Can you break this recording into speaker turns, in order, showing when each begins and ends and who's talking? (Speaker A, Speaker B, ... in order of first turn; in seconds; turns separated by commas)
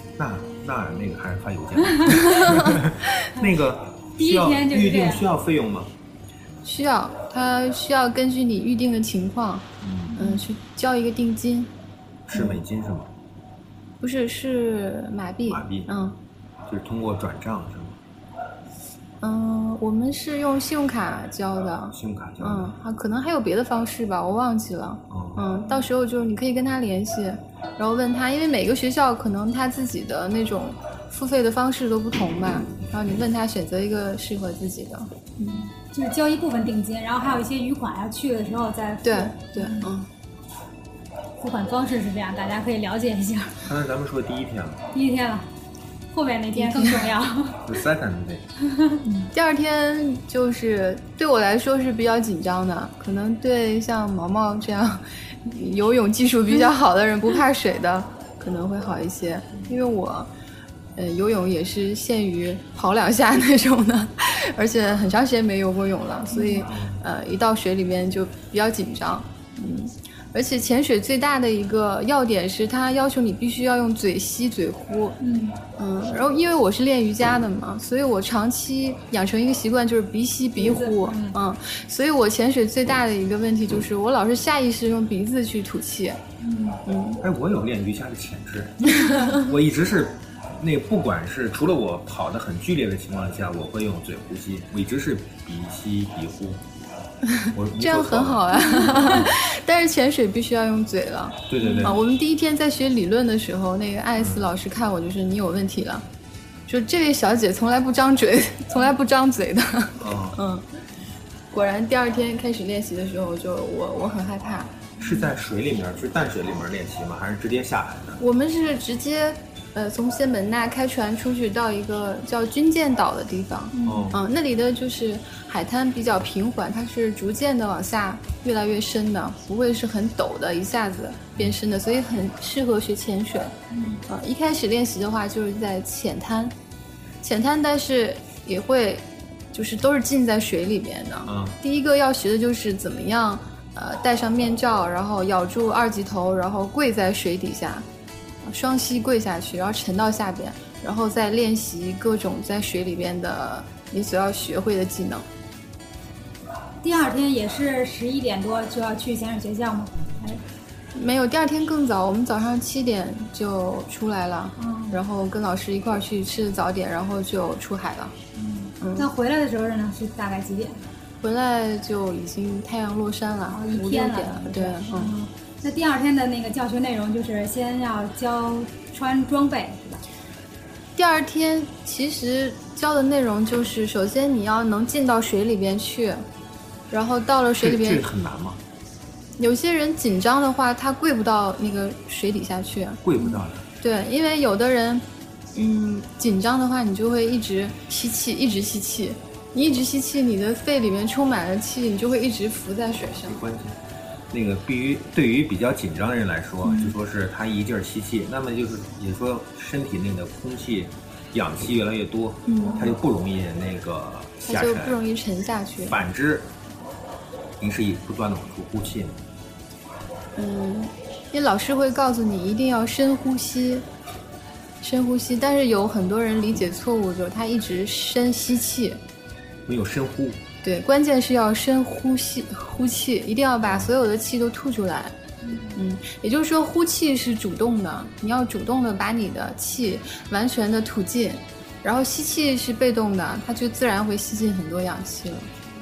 Speaker A: 0.2-5.9, Speaker B: 2.3-2.7, Speaker C: 4.2-5.2, Speaker B: 6.6-11.7, Speaker A: 9.8-10.2, Speaker C: 10.1-10.4, Speaker A: 12.3-13.1, Speaker B: 14.0-16.1, Speaker A: 15.5-15.9, Speaker A: 16.7-17.9, Speaker B: 19.2-35.6, Speaker A: 21.9-22.7, Speaker A: 25.1-25.4, Speaker C: 35.5-39.9, Speaker B: 39.0-40.1, Speaker C: 41.4-43.6, Speaker A: 43.6-44.8, Speaker C: 44.9-45.5, Speaker C: 46.1-47.8, Speaker B: 46.5-47.0, Speaker A: 47.6-48.4, Speaker C: 48.7-49.1, Speaker B: 49.2-60.3, Speaker B: 61.0-75.2, Speaker C: 66.3-66.7, Speaker A: 66.7-67.0, Speaker C: 75.2-75.6, Speaker B: 75.8-86.2, Speaker C: 80.6-81.4, Speaker C: 86.4-86.8, Speaker B: 86.8-87.2, Speaker A: 87.2-96.6, Speaker B: 89.0-89.4, Speaker B: 97.3-106.0, Speaker A: 97.5-99.3, Speaker C: 98.8-99.1, Speaker A: 101.5-102.0, Speaker C: 101.6-102.0, Speaker A: 104.2-104.4, Speaker B: 106.7-110.6, Speaker A: 110.0-110.4, Speaker B: 111.5-114.7, Speaker A: 115.0-118.2, Speaker B: 118.2-133.5, Speaker C: 123.7-124.1, Speaker A: 123.8-124.2, Speaker C: 133.7-134.0, Speaker B: 134.1-136.5, Speaker B: 137.2-147.8, Speaker A: 141.2-141.6, Speaker B: 148.4-155.2, Speaker C: 156.8-160.4, Speaker B: 160.9-168.1, Speaker C: 164.6-165.0, Speaker C: 168.3-170.8, Speaker B: 168.8-169.1, Speaker B: 171.2-175.1, Speaker C: 173.5-180.0, Speaker B: 181.0-186.2, Speaker B: 186.9-188.1, Speaker A: 187.6-188.6, Speaker B: 189.4-195.0, Speaker A: 193.0-193.7, Speaker B: 195.5-203.4, Speaker A: 203.2-203.8, Speaker A: 204.3-215.0, Speaker B: 206.6-206.9, Speaker B: 212.4-212.9, Speaker B: 214.4-216.0, Speaker A: 215.9-216.5, Speaker A: 217.6-219.2, Speaker B: 220.3-223.8, Speaker B: 224.8-229.0, Speaker A: 229.7-230.4, Speaker B: 230.6-235.1, Speaker C: 235.4-235.8, Speaker B: 235.7-245.5